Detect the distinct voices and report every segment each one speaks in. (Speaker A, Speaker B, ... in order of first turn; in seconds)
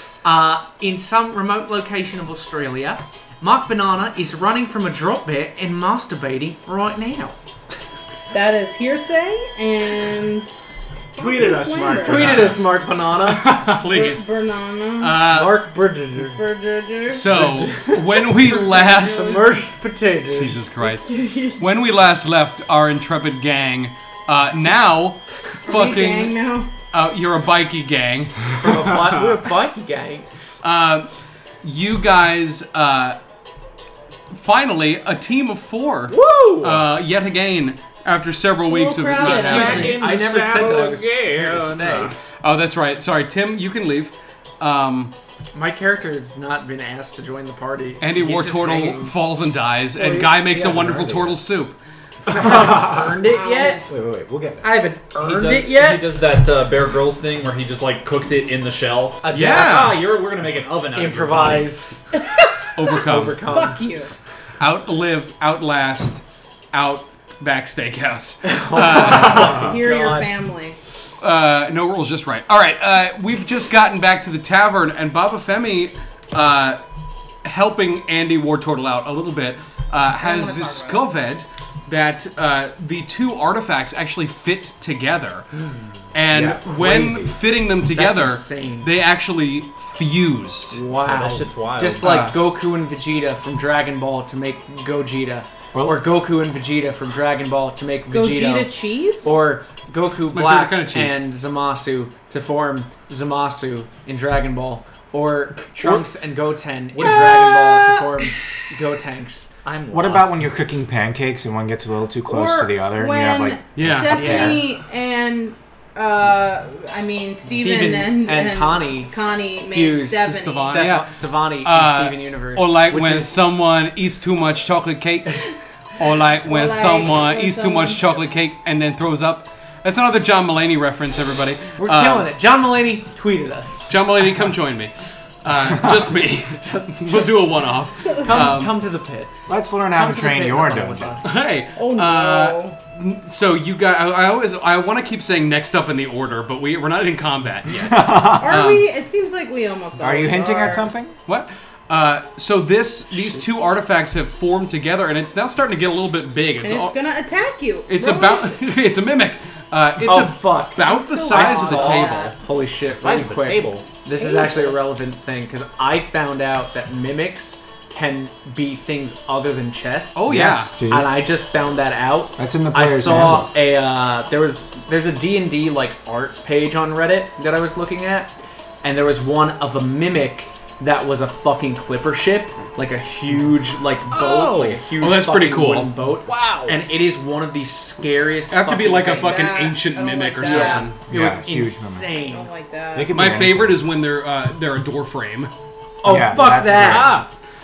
Speaker A: 0.2-7.4, 12.0-13.7, 15.2-16.4, 17.3-18.5, 19.1-20.6, 28.5-30.3, 39.3-42.2, 45.5-49.1, 52.3-53.5, 54.6-56.2, 59.2-60.0, 60.9-61.9, 62.9-63.8, 68.4-70.3, 87.8-88.9, 90.7-98.7, 99.2-109.5, 114.1-114.7, 117.4-119.1, 119.7-123.3, 131.8-134.0, 136.5-137.4, 138.1-139.3, 139.9-141.3, 153.1-153.4, 160.0-189.5, 190.4-192.5, 196.0-197.3
Speaker B: 8.3-12.6, 13.8-15.2, 16.2-17.3, 18.4-19.5, 20.8-21.8, 25.6-26.7, 38.7-40.0, 53.1-53.8, 62.2-62.9, 63.4-64.1, 68.8-70.8, 80.2-81.0, 98.1-99.4, 107.0-108.1, 112.3-120.8, 126.4-128.0, 141.8-142.8, 148.4-150.8, 156.6-158.6, 160.8-162.3, 164.2-164.8, 189.1-190.9, 192.2-193.2
Speaker C: 11.2-12.6, 52.4-53.2, 53.9-54.7, 86.3-87.4, 95.7-96.0, 109.9-114.5, 139.5-141.3, 147.7-148.7, 150.0-151.2, 170.3-171.1, 172.4-173.5, 191.1-192.1, 192.9-193.8, 196.1-197.2
Speaker D: 13.2-14.3, 15.0-15.6, 17.1-19.5, 20.3-26.4, 26.9-28.5, 30.6-31.1, 31.6-33.2, 34.3-40.0, 42.3-45.1, 48.0-51.8, 59.3-60.0, 62.8-63.4, 64.6-69.8, 71.2-76.8, 77.4-85.5, 86.1-90.8, 92.0-92.4, 100.3-101.2, 113.8-114.5, 120.5-121.1, 121.6-132.3, 133.9-138.7, 141.2-148.9, 151.3-157.0, 157.9-162.2, 170.2-170.7, 184.3-185.9, 188.5-191.0, 193.1-195.5
Speaker E: 28.8-29.3, 36.1-36.9, 39.2-42.1, 50.0-51.3, 52.3-53.8, 55.1-61.8, 91.0-92.3, 109.7-110.5, 162.9-163.9, 184.2-184.8, 186.2-186.8, 196.7-197.2